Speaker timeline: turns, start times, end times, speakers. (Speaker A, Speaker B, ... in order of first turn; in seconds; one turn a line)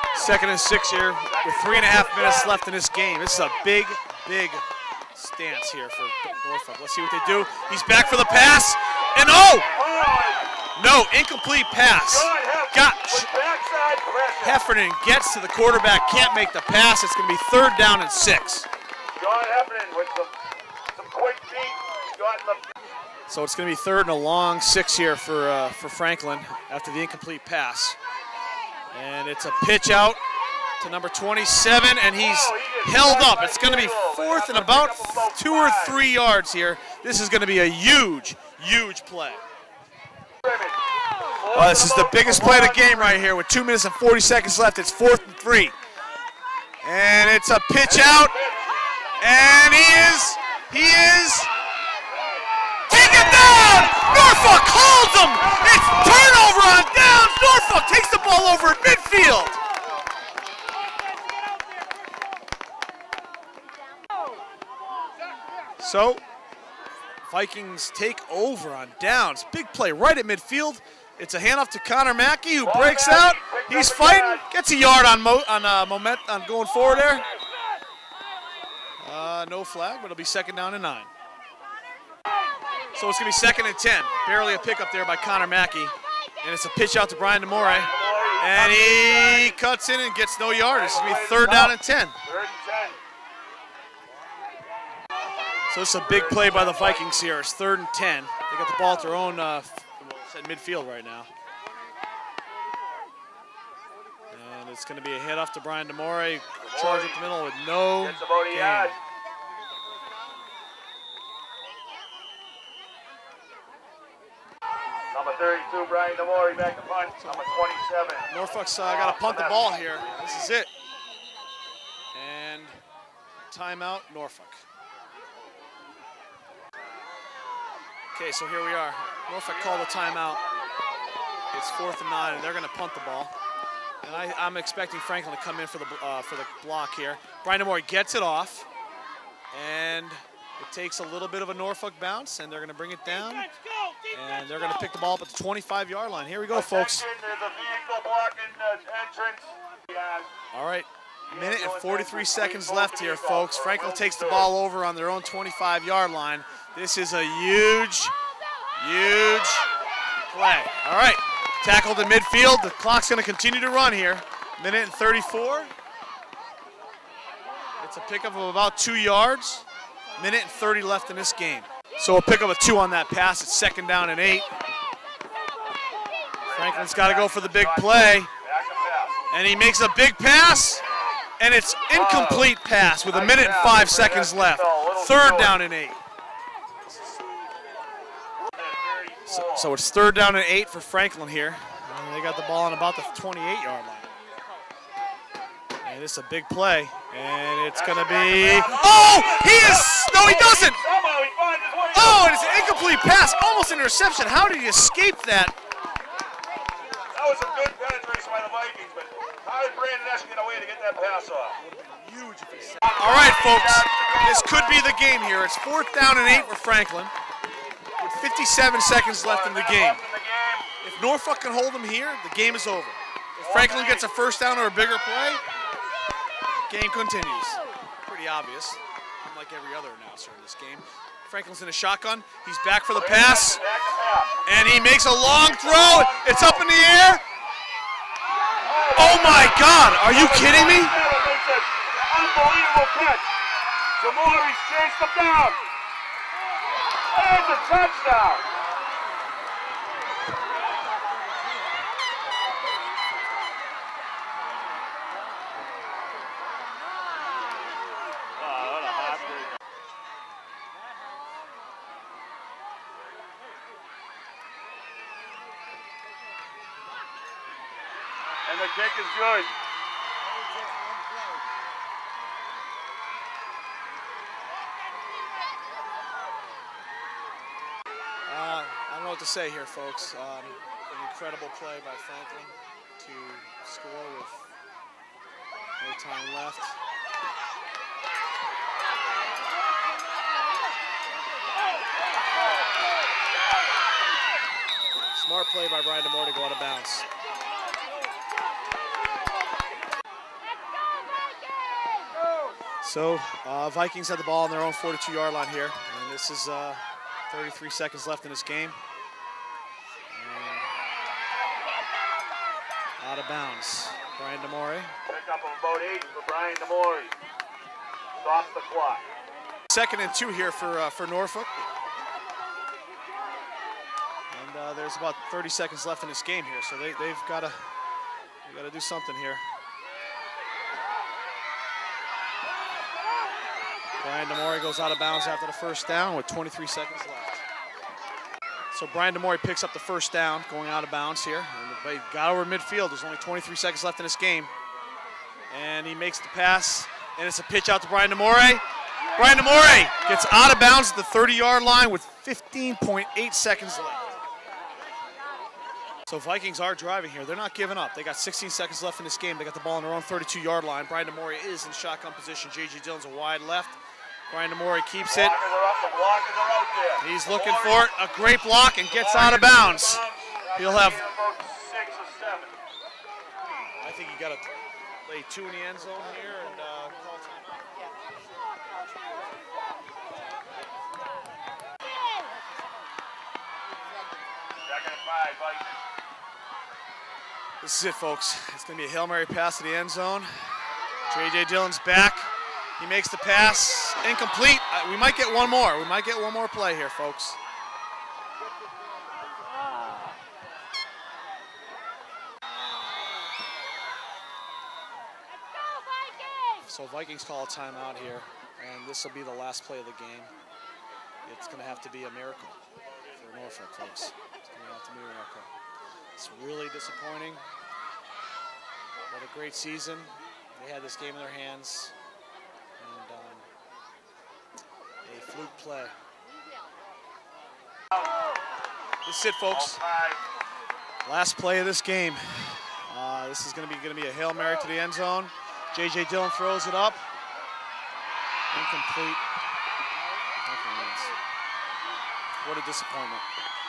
Speaker A: 0.1-9.7
Speaker B: 1.2-2.6
Speaker B: 9.5-10.5
Speaker A: 10.8-13.3
Speaker B: 12.0-14.6
Speaker A: 14.4-18.7
Speaker B: 15.9-16.3
Speaker B: 19.2-20.3
Speaker B: 20.9-22.6
Speaker A: 23.3-28.0
Speaker A: 28.9-30.2
Speaker A: 30.8-39.4
Speaker B: 32.1-36.0
Speaker B: 40.4-40.8
Speaker B: 41.3-43.0
Speaker A: 41.5-45.7
Speaker A: 46.8-48.4
Speaker B: 47.8-48.8
Speaker A: 49.2-51.5
Speaker B: 52.1-54.2
Speaker A: 52.9-59.6
Speaker B: 55.4-56.4
Speaker A: 65.8-66.2
Speaker A: 67.2-77.2
Speaker B: 72.6-74.4
Speaker A: 79.0-81.1
Speaker A: 82.9-92.2
Speaker B: 87.5-89.6
Speaker B: 90.6-93.0
Speaker A: 95.7-101.3
Speaker B: 96.0-97.2
Speaker A: 104.3-108.9
Speaker B: 106.6-107.2
Speaker B: 108.0-108.9
Speaker B: 115.1-120.5
Speaker A: 117.2-117.5
Speaker A: 118.3-120.7
Speaker A: 122.1-122.8
Speaker A: 123.5-124.6
Speaker A: 128.1-130.4
Speaker A: 131.5-133.3
Speaker A: 134.0-138.7
Speaker A: 139.5-143.5
Speaker B: 143.2-143.9
Speaker A: 144.1-147.0
Speaker B: 146.5-150.3
Speaker A: 150.5-158.1
Speaker B: 151.3-154.5
Speaker A: 158.8-159.6
Speaker A: 160.3-165.7
Speaker A: 167.8-169.6
Speaker A: 170.2-174.5
Speaker B: 176.5-179.2
Speaker A: 176.5-178.3
Speaker A: 179.3-180.8
Speaker B: 180.8-181.1
Speaker A: 181.4-186.0
Speaker B: 181.9-182.5
Speaker B: 183.1-185.6
Speaker A: 186.9-187.2
Speaker B: 188.4-189.7
Speaker A: 189.3-194.1
Speaker A: 195.8-200.8
Speaker B: 197.7-203.3
Speaker A: 201.9-205.5
Speaker B: 207.1-211.6
Speaker A: 211.6-217.1
Speaker B: 212.8-214.8
Speaker A: 218.0-220.0
Speaker B: 219.2-220.7
Speaker A: 220.8-225.4
Speaker B: 223.4-224.1
Speaker A: 226.7-233.6
Speaker B: 232.9-234.4
Speaker A: 234.4-237.2
Speaker B: 235.2-236.7
Speaker B: 238.6-243.3
Speaker A: 238.9-240.9
Speaker B: 244.0-245.6
Speaker B: 247.1-248.4
Speaker B: 258.4-259.5
Speaker B: 268.5-269.5
Speaker A: 278.3-284.5
Speaker A: 285.8-286.8
Speaker A: 295.1-297.1
Speaker A: 302.8-308.8
Speaker A: 310.1-310.7
Speaker A: 313.0-314.9
Speaker B: 315.1-317.1
Speaker B: 318.2-319.1
Speaker A: 319.7-321.5
Speaker A: 324.3-327.6
Speaker A: 328.4-329.4
Speaker A: 334.0-337.4
Speaker A: 338.7-344.5
Speaker A: 345.5-348.6
Speaker A: 349.1-354.1
Speaker A: 356.1-363.8
Speaker A: 364.3-365.4
Speaker B: 365.1-367.9
Speaker A: 367.0-370.0
Speaker B: 368.9-372.6
Speaker A: 370.6-371.0
Speaker A: 373.8-374.5
Speaker A: 375.1-377.7
Speaker B: 384.6-385.8
Speaker A: 387.6-390.3
Speaker A: 391.1-397.4
Speaker A: 406.6-410.3
Speaker A: 411.2-412.6
Speaker A: 413.1-415.5
Speaker A: 416.2-417.4
Speaker A: 419.1-421.9
Speaker A: 422.8-423.5
Speaker A: 425.0-425.9
Speaker A: 429.0-429.8
Speaker B: 429.5-430.2
Speaker A: 431.0-437.0
Speaker A: 438.5-439.2
Speaker A: 440.4-441.1
Speaker A: 442.4-443.2